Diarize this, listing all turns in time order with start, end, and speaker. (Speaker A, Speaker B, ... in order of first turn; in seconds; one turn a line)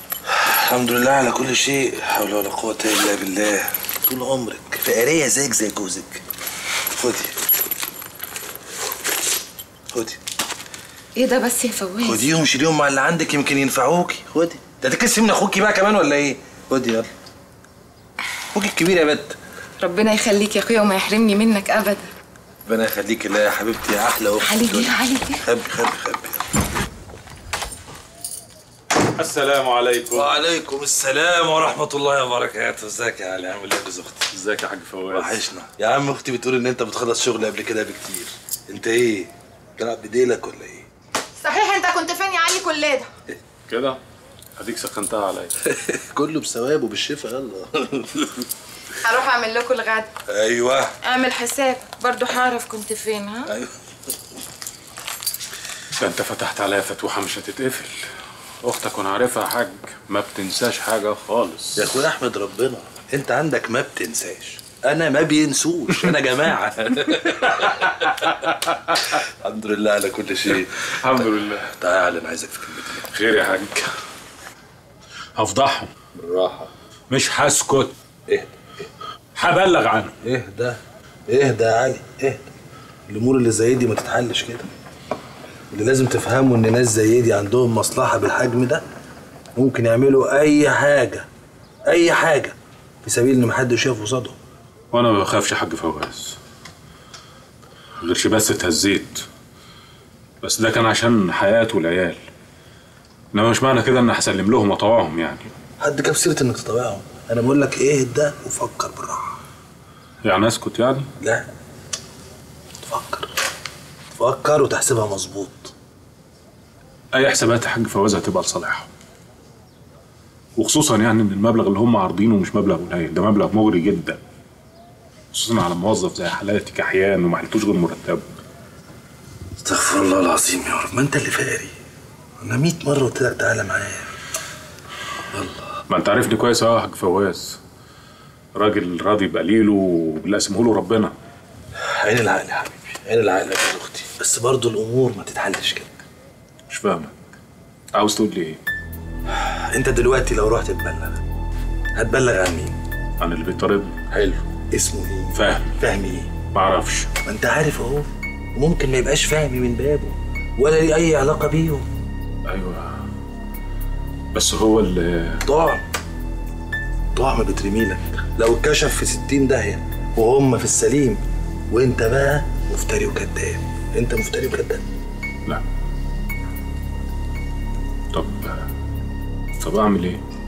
Speaker A: 0.3-6.2
Speaker A: 6.9-7.3
Speaker A: 9.9-10.2
Speaker B: 11.2-12.2
Speaker A: 12.0-17.1
Speaker A: 18.5-19.4
Speaker B: 19.8-22.1
Speaker A: 22.7-26.4
Speaker B: 24.4-25.4
Speaker C: 29.2-30.3
Speaker A: 30.1-34.3
Speaker C: 34.3-35.4
Speaker A: 35.1-40.9
Speaker B: 41.4-43.1
Speaker C: 43.7-44.0
Speaker C: 44.6-45.5
Speaker A: 45.7-48.4
Speaker B: 49.0-50.1
Speaker A: 50.3-50.9
Speaker B: 51.0-53.5
Speaker C: 56.0-57.9
Speaker C: 58.6-61.9
Speaker A: 61.8-68.1
Speaker A: 69.4-73.1
Speaker C: 71.0-71.7
Speaker C: 73.1-73.8
Speaker C: 75.4-75.9
Speaker A: 76.1-76.7
Speaker C: 77.1-77.9
Speaker A: 78.3-78.8
Speaker C: 79.3-80.1
Speaker A: 80.2-82.4
Speaker A: 83.1-84.7
Speaker A: 85.7-88.8
Speaker A: 89.5-91.2
Speaker A: 91.9-94.3
Speaker C: 94.9-96.4
Speaker C: 98.0-99.2
Speaker C: 100.4-102.2
Speaker C: 103.3-105.5
Speaker A: 105.8-109.3
Speaker C: 110.2-111.1
Speaker A: 111.2-111.5
Speaker A: 112.8-113.3
Speaker A: 114.2-115.7
Speaker C: 117.1-118.9
Speaker C: 120.5-124.2
Speaker C: 125.3-128.3
Speaker A: 129.6-131.7
Speaker A: 132.4-134.1
Speaker A: 135.3-135.8
Speaker C: 135.9-137.6
Speaker C: 138.5-141.1
Speaker A: 141.8-145.9
Speaker C: 146.7-147.1
Speaker C: 147.9-148.6
Speaker A: 149.3-151.2
Speaker A: 151.9-152.8
Speaker C: 153.2-154.0
Speaker A: 154.1-156.3
Speaker C: 155.3-155.7
Speaker C: 156.5-157.1
Speaker A: 157.2-161.8
Speaker C: 162.4-162.9
Speaker C: 164.3-165.4
Speaker A: 165.4-165.8
Speaker A: 167.1-174.8
Speaker C: 178.1-178.5
Speaker C: 179.6-180.2